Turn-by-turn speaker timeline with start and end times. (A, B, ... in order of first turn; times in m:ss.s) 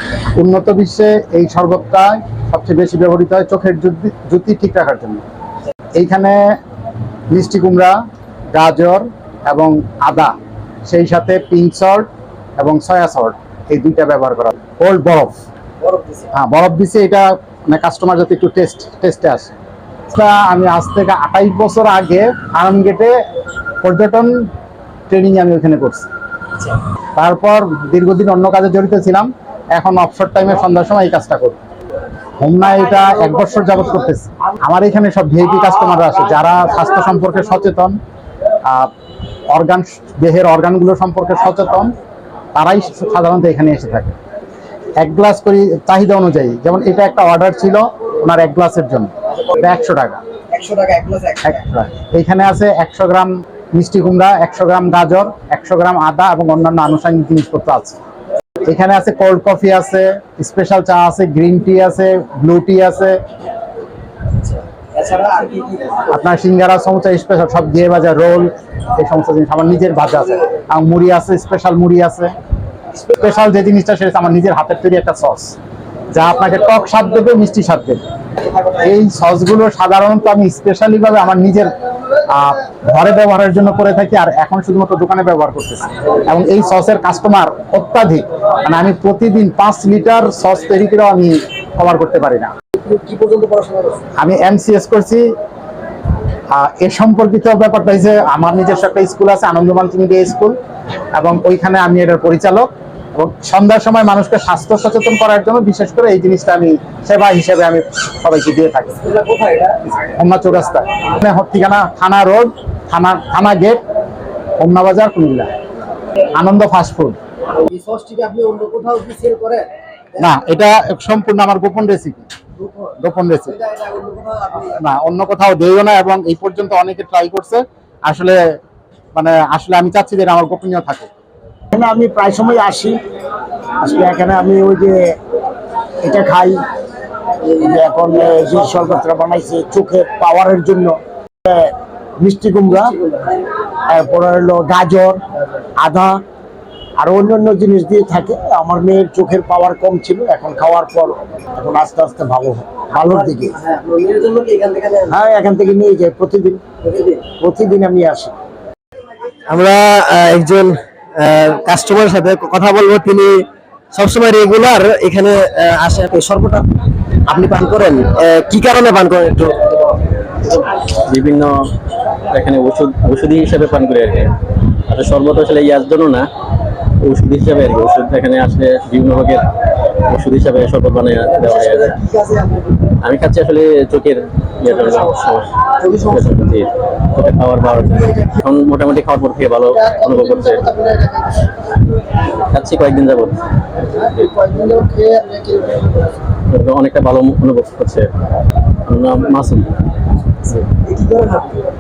0:00.4-0:05.2 A
0:06.0-0:06.4 A
0:07.3-0:07.9 A
0:08.5-0:10.3 A
0:10.8-0:15.3 A
0:16.3-0:19.5 A
0:20.1-0:23.1 A
0:23.8-0:24.3 A
0:25.1-0:26.1 A
0:27.2-0:31.6 A
0:32.4-0:38.0 A
0:38.6-0:38.9 A
0:39.5-0:41.9 A
0:42.5-0:44.1 A
0:45.0-0:50.2 A
0:50.5-0:51.4 B
0:51.4-0:58.0 A
0:58.6-1:03.2 A
1:05.0-1:06.0 B
1:06.0-1:12.3 A
1:13.1-1:15.6 A
1:16.1-1:18.0 A
1:18.6-1:21.7 A
1:22.3-1:32.5 A
1:32.8-1:34.0 B
1:34.2-1:35.2 A
1:36.5-1:40.6 A
1:41.2-1:49.2 A
1:49.2-1:49.7 B
1:49.9-1:53.8 A
1:54.6-1:55.5 A
1:56.3-1:57.2 A
1:57.6-1:59.7 B
2:00.2-2:02.2 A
2:02.6-2:02.9 B
2:03.0-2:03.6 A
2:03.7-2:04.7 B
2:04.6-2:08.4 A
2:09.1-2:11.1 A
2:11.7-2:13.0 C
2:13.8-2:15.2 C
2:16.0-2:16.6 C
2:17.4-2:23.0 C
2:23.9-2:25.2 C
2:25.8-2:26.2 C
2:27.0-2:33.6 C
2:33.7-2:35.1 B
2:35.0-2:36.6 C
2:37.4-2:38.3 C
2:39.5-2:46.7 D
2:47.3-2:49.6 D
2:50.4-2:51.7 E
2:52.3-2:54.3 E
2:54.9-2:56.3 E
2:57.0-2:59.4 E
3:00.0-3:02.0 E
3:01.9-3:02.6 B
3:03.0-3:10.7 E
3:09.9-3:11.4 B
3:12.5-3:13.4 E
3:13.8-3:16.0 B
3:16.5-3:18.1 E
3:18.8-3:19.7 E
3:20.9-3:21.5 B